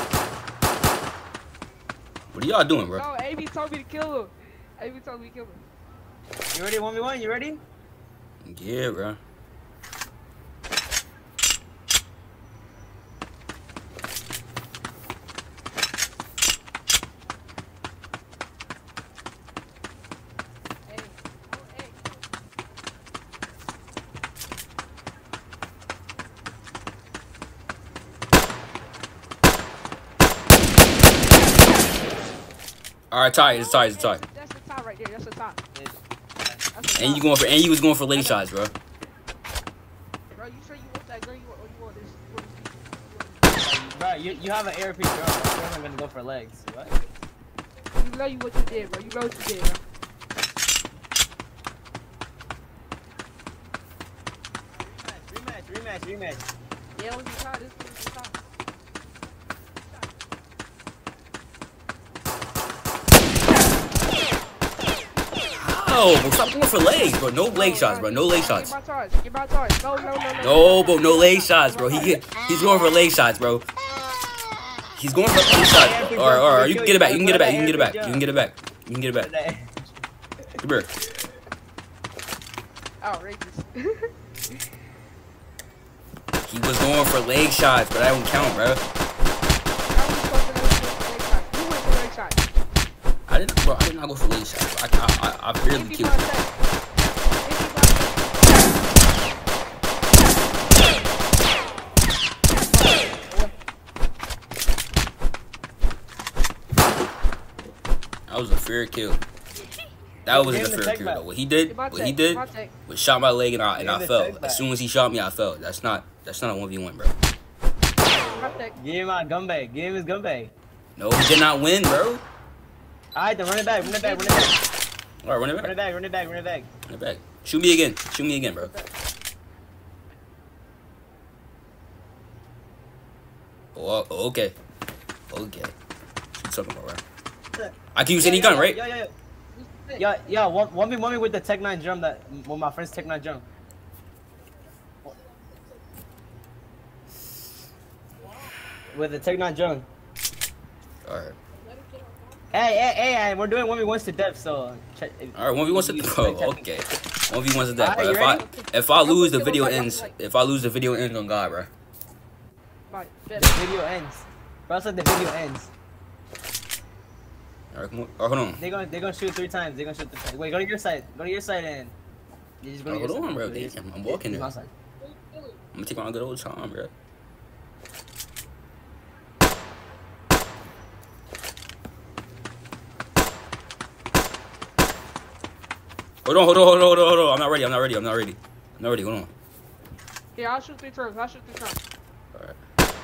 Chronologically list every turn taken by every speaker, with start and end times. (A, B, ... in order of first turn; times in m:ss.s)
0:02.3-0:03.0 A
0:02.9-0:05.6 B
0:06.5-0:07.6 C
0:08.4-0:09.2 A
0:20.9-0:22.1 B
0:33.1-0:34.2 A
0:33.4-0:35.6 B
0:35.7-0:36.7 C
0:36.7-0:37.3 B
0:36.9-0:38.7 A
0:40.3-0:44.4 B
0:43.6-0:47.0 C
0:48.0-0:49.8 B
0:54.7-0:56.5 C
0:56.9-0:58.4 B
1:05.5-1:08.7 A
1:07.5-1:12.2 B
1:10.4-1:13.6 A
1:14.9-1:19.3 A
1:15.5-1:18.3 C
1:19.2-1:20.0 C
1:20.6-1:20.9 A
1:23.0-1:24.1 B
1:26.4-1:28.8 A
1:29.9-1:32.4 B
1:33.3-1:36.2 A
1:35.7-1:36.5 B
1:37.4-1:38.6 B
1:42.7-1:43.5 B
1:48.3-1:49.2 A
1:50.2-1:57.1 A
1:50.3-1:51.2 C
1:51.7-1:52.7 B
1:53.7-1:54.7 C
1:58.2-1:58.7 B
1:58.4-2:00.5 C
2:01.0-2:02.2 A
2:03.1-2:04.6 C
2:03.7-2:04.5 B
2:05.2-2:05.7 A
2:05.6-2:06.7 C
2:06.8-2:08.7 A
2:08.6-2:08.9 B
2:13.7-2:14.6 A
2:15.3-2:15.7 A
2:16.3-2:17.0 A
2:17.5-2:19.1 C
2:17.9-2:18.8 A
2:19.5-2:20.0 B
2:20.0-2:23.4 C
2:28.9-2:29.9 C
2:31.0-2:31.4 A
2:32.5-2:36.8 C
2:35.3-2:41.7 A
2:37.8-2:38.5 C
2:38.3-2:40.1 B
2:42.9-2:43.6 B
2:43.3-2:45.7 C
2:47.7-2:48.6 A
2:48.6-2:51.9 C
2:52.6-2:54.7 C
2:52.9-2:54.5 A
2:55.7-2:56.9 A
3:06.2-3:09.3 A
3:10.3-3:11.8 B